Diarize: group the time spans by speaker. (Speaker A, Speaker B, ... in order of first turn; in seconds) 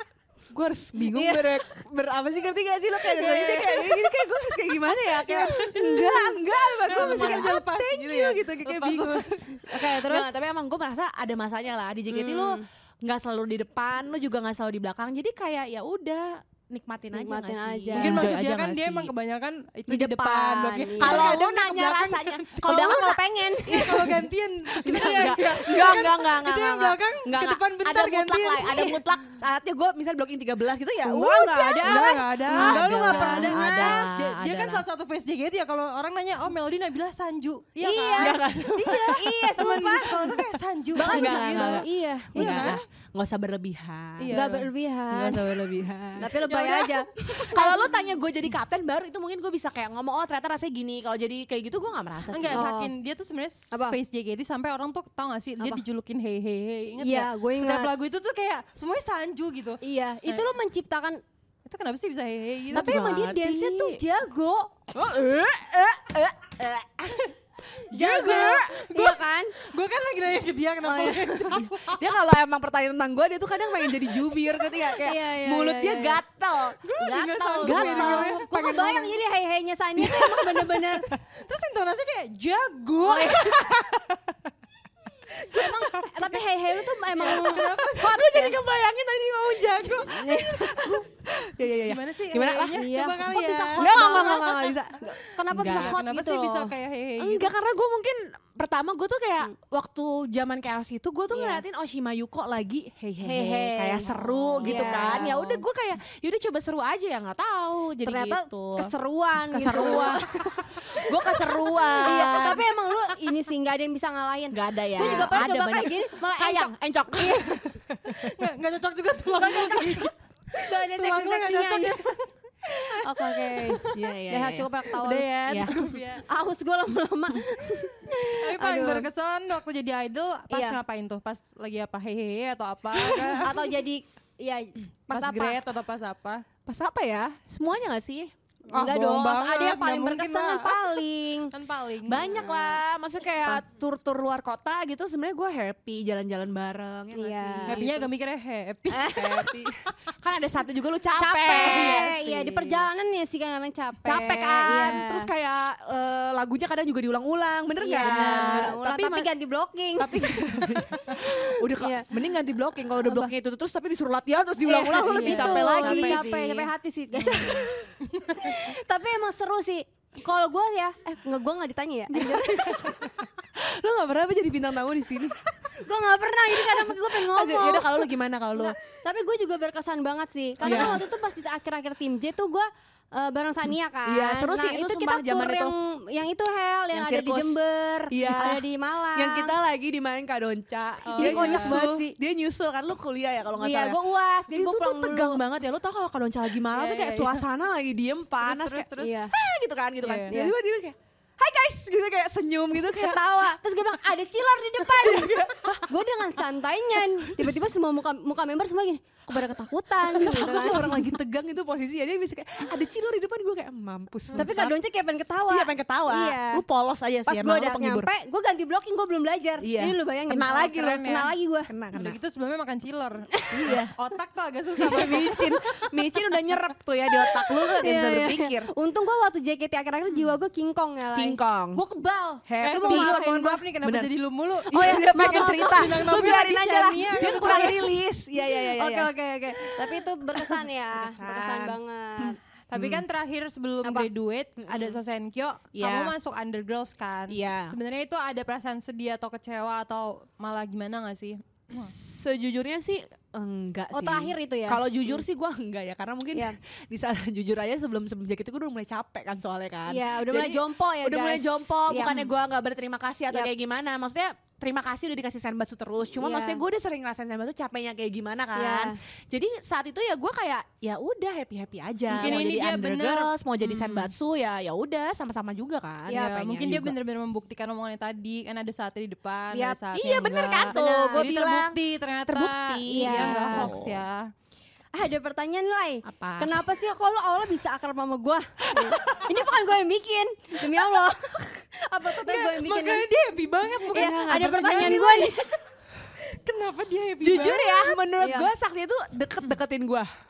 Speaker A: 0.5-19.1, 21.0-34.9, 38.2-40.4, 40.9-44.4, 45.1-52.7, 62.7-64.0, 64.9-68.8, 71.5-79.2, 80.0-81.2, 83.2-84.4, 85.5-86.1, 87.2-92.8, 93.8-95.0, 95.5-96.0, 97.2-108.9, 109.5-112.7, 114.5-118.3, 123.9-126.2, 136.7-138.3, 142.1-148.2, 149.2-152.8, 154.0-159.3, 160.0-166.3, 172.1-175.4, 176.5-178.8, 180.6-181.0, 184.1-185.7, 186.9-203.4, 204.8-206.0, 207.2-207.6, 209.3-214.7, 215.5-218.1, 219.6-222.2, 223.5-223.9, 224.8-228.7, 231.1-231.8, 232.5-234.1, 234.7-239.1, 239.6-243.0, 244.6-245.0, 245.7-246.1, 247.3-247.8, 251.7-276.9, 279.9-284.0, 286.1-286.7, 288.7-289.4, 293.9-295.4, 297.2-300.1
Speaker B: 1.0-1.6, 3.0-4.1, 5.2-7.5, 9.7-10.4, 12.1-12.6, 17.1-18.3, 19.9-21.4, 22.6-24.1, 31.0-34.1, 37.8-40.4, 40.9-42.8, 44.3-45.5, 46.2-47.9, 52.5-52.9, 57.0-57.9, 59.8-61.2, 62.7-64.7, 67.9-69.5, 70.8-71.7, 74.9-76.2, 77.0-81.1, 83.0-83.6, 85.5-88.6, 90.0-90.9, 92.5-96.7, 101.3-101.6, 103.2-105.6, 108.0-117.6, 119.4-122.1, 122.7-129.1, 130.5-130.8, 133.4-135.6, 138.7-141.5, 142.2-142.8, 147.1-147.8, 148.9-149.5, 151.2-155.3, 157.8-160.4, 161.0-162.1, 163.0-163.3, 164.6-173.0, 175.7-189.6, 191.2-192.2, 193.6-195.4, 199.0-199.3, 200.3-200.5, 202.9-211.1, 214.3-216.6, 217.2-221.7, 223.3-223.8, 227.1-233.6, 234.7-235.9, 237.2-237.8, 238.4-242.4, 253.9-255.2, 259.9-262.3, 266.2-266.6, 268.6-268.9, 272.2-272.4, 276.1-276.4, 279.5-279.8, 280.7-281.2, 282.9-283.7, 284.9-293.1, 293.9-295.6, 297.8-298.5
Speaker C: 6.8-9.4, 17.9-23.0, 23.7-29.0, 31.8-42.8, 44.2-44.7, 52.3-60.5, 61.6-63.0, 68.0-72.0, 76.8-78.5, 81.4-83.5, 85.5-86.0, 87.1-88.2, 91.8-94.8, 95.5-97.5, 104.7-105.2, 115.0-115.4, 118.1-124.0, 128.4-133.7, 135.1-136.4, 138.7-141.0, 141.5-142.3, 147.7-149.5, 151.6-152.2, 158.0-158.7, 160.2-160.8, 165.0-168.6, 180.6-180.9, 191.1-191.8, 196.7-197.4, 198.4-199.2, 200.0-200.3, 220.7-221.3, 221.9-225.6, 232.6-237.9, 242.7-251.9, 272.1-274.1, 276.1-284.3, 292.2-295.4, 296.2-297.9